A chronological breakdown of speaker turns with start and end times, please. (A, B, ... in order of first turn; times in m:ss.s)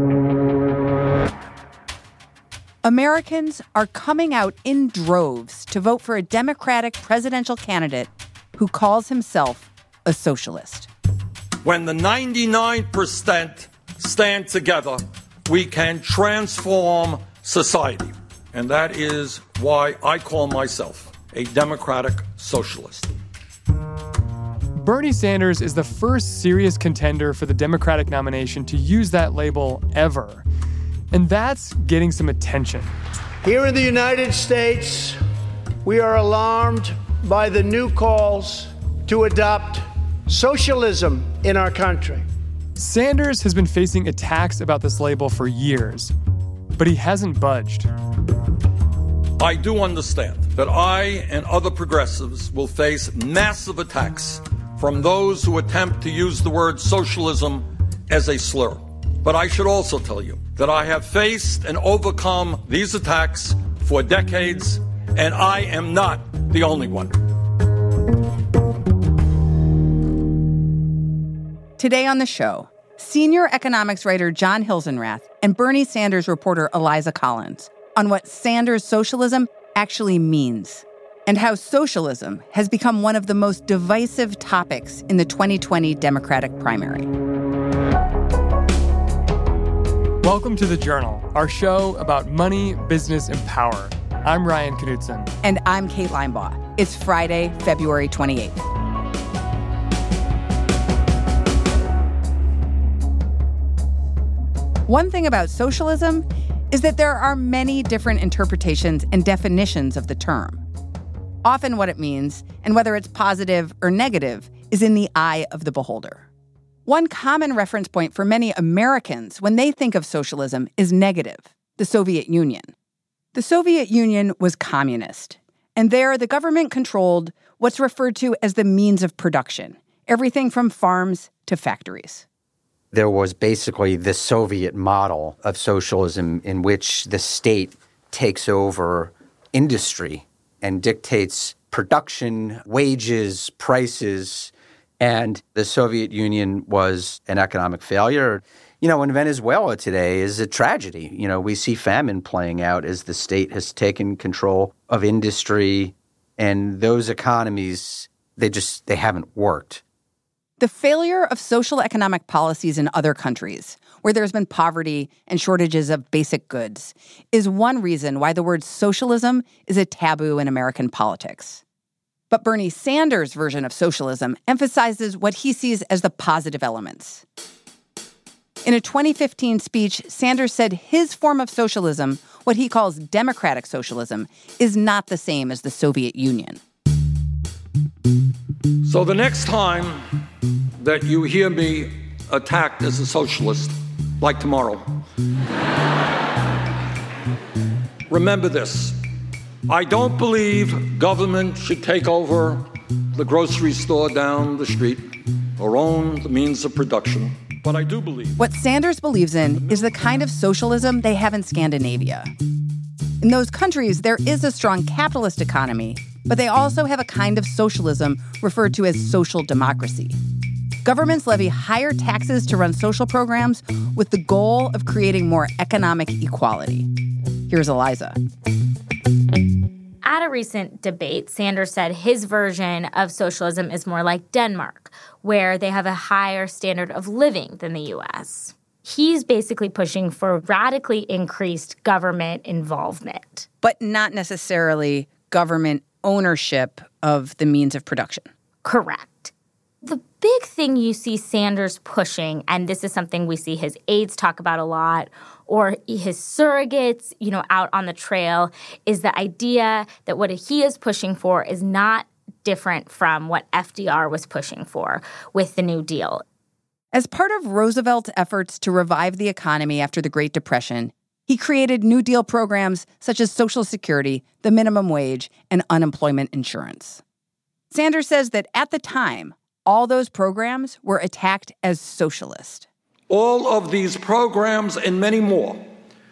0:02.8-0:10.9 A
0:11.6-0:23.1 B
0:24.8-0:30.4 C
0:31.1-0:32.9 C
0:33.4-0:35.2 D
0:35.8-0:42.3 D
0:42.8-0:46.1 C
0:46.8-0:47.9 C
0:49.4-1:07.2 B
1:11.8-1:27.1 A
1:30.2-1:35.3 C
1:35.4-1:38.6 A
1:44.9-1:50.6 A
1:51.4-1:56.3 A
1:56.8-2:02.7 A
2:03.3-2:12.2 A
2:12.9-2:39.8 E
2:40.6-2:51.6 A
2:52.3-2:57.2 A
2:58.6-3:06.6 A
3:08.8-3:10.0 B
3:10.8-3:14.8 B
3:18.1-3:19.0 B
3:19.7-3:25.0 B
3:25.6-3:28.4 B
3:28.4-3:32.3 A
3:33.2-3:40.2 A
3:40.8-3:46.9 A
3:47.5-3:48.2 A
3:50.0-4:03.5 F
4:03.6-4:08.3 A
4:08.6-4:09.3 F
4:09.8-4:26.2 F
4:26.9-4:37.0 A
4:37.7-4:42.7 A
4:43.1-4:45.6 B